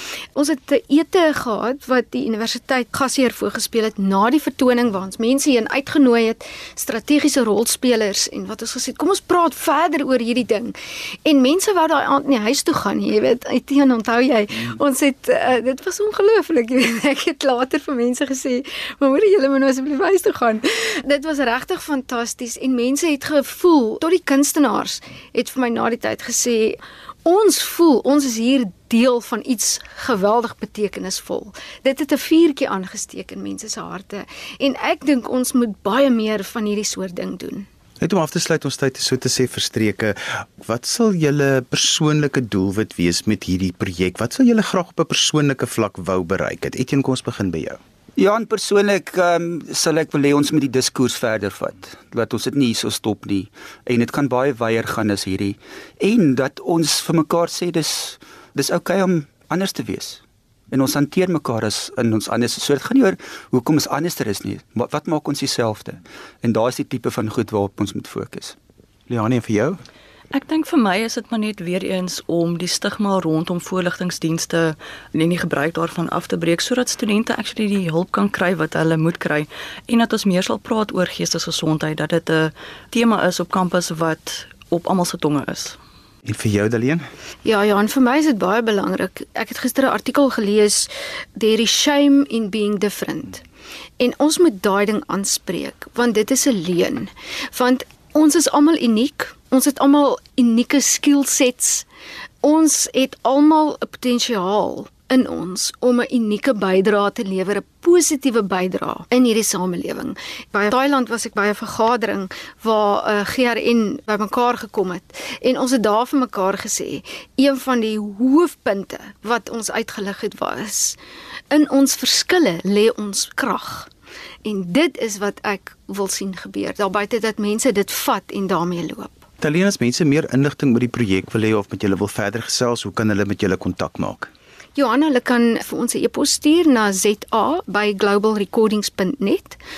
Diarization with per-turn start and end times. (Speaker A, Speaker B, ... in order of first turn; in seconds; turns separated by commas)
Speaker A: 0.3-37.6, Speaker B: 38.0-47.8, Speaker C: 48.2-68.5, Speaker B: 69.1-69.8, Speaker D: 70.3-85.8, Speaker B: 86.2-87.0, Speaker A: 87.4-93.4, Speaker A: 94.0-101.8, Speaker A: 102.4-121.0, Speaker A: 121.5-123.9, Speaker A: 124.4-129.2, Speaker B: 129.4-134.3, Speaker A: 134.8-139.6